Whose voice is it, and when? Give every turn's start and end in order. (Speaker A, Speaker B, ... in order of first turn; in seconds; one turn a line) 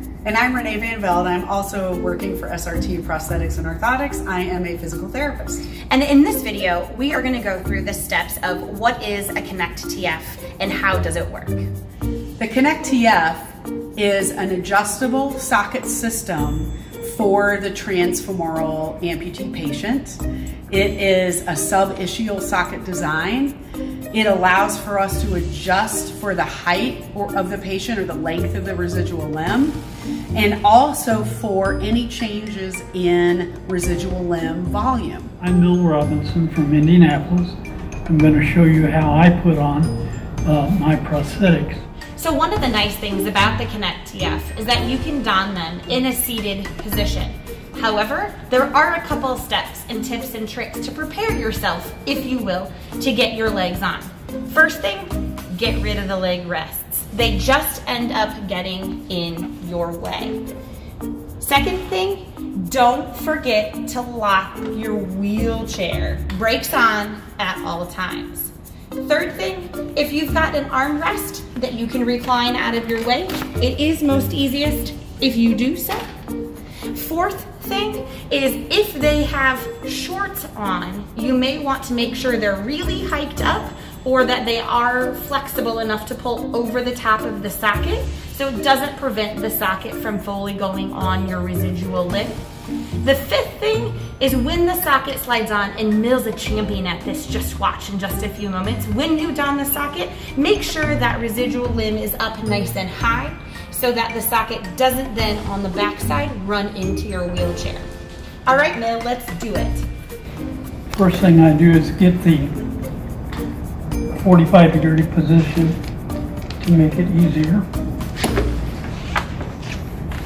Speaker A: 0.2-5.7
Speaker B: 5.9-11.7
Speaker A: 12.4-20.2
Speaker A: 20.7-23.6
Speaker A: 24.1-29.8
Speaker A: 30.3-35.3
Speaker C: 35.4-39.9
Speaker C: 40.4-41.8
Speaker B: 42.2-60.4
Speaker B: 61.4-76.0
Speaker B: 76.9-92.4
Speaker B: 93.0-107.9
Speaker B: 108.5-109.8
Speaker C: 110.9-112.6
Speaker C: 114.1-115.8
Speaker C: 116.6-117.6